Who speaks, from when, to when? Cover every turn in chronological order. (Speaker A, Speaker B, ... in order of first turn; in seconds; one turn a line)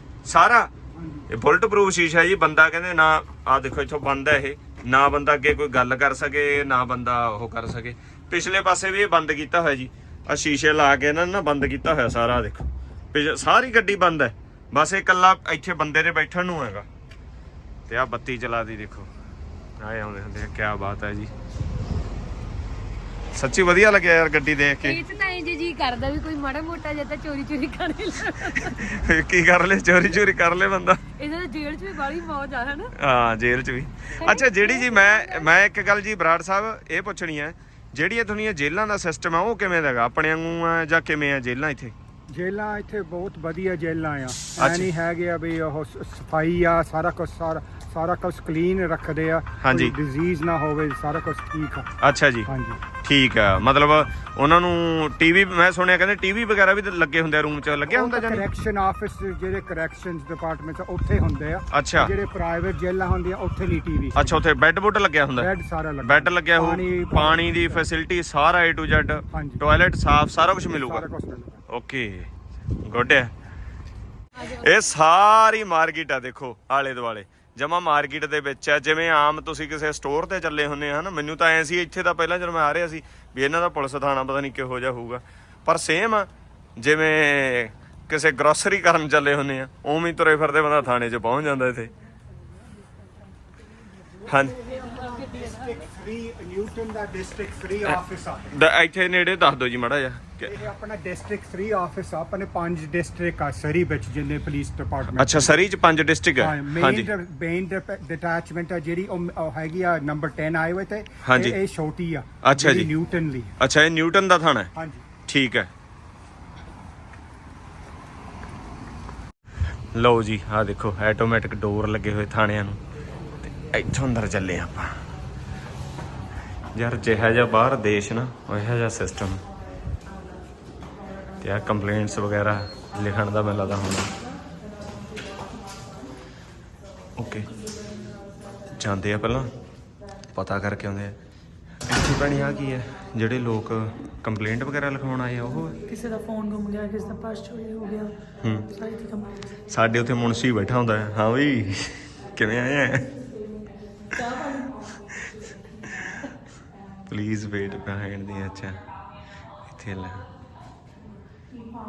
Speaker A: 0.2-0.7
Speaker B: 0.9-1.2
Speaker A: 1.3-16.9
Speaker A: 17.9-19.1
Speaker A: 19.8-21.3
Speaker A: 23.3-25.0
Speaker C: 24.8-28.9
Speaker A: 28.7-31.0
Speaker C: 31.2-32.9
Speaker A: 33.0-41.9
Speaker C: 34.2-35.5
Speaker B: 42.3-51.9
Speaker A: 44.6-44.9
Speaker A: 49.6-49.9
Speaker A: 52.0-52.5
Speaker B: 52.5-52.8
Speaker A: 53.0-58.4
Speaker B: 57.9-64.4
Speaker A: 61.7-62.1
Speaker A: 64.1-71.0
Speaker B: 65.3-67.8
Speaker B: 69.3-69.6
Speaker B: 70.7-71.6
Speaker A: 71.7-73.3
Speaker C: 74.4-74.6
Speaker A: 74.4-91.9
Speaker A: 94.2-94.6
Speaker B: 94.2-98.5
Speaker A: 98.5-100.5
Speaker B: 100.5-105.6
Speaker A: 105.1-107.1
Speaker B: 106.4-113.5
Speaker A: 111.2-111.6
Speaker A: 112.4-112.9
Speaker A: 113.6-114.7
Speaker B: 114.8-115.0
Speaker A: 115.3-115.7
Speaker A: 119.9-122.8
Speaker A: 123.5-125.0
Speaker A: 126.7-129.4
Speaker A: 131.4-134.1
Speaker A: 137.2-137.5
Speaker A: 138.7-139.5
Speaker A: 140.3-141.2
Speaker A: 141.9-145.8
Speaker D: 145.9-148.1
Speaker A: 148.4-148.7
Speaker D: 148.7-149.5
Speaker A: 149.7-153.1
Speaker A: 157.1-158.8
Speaker A: 159.7-160.2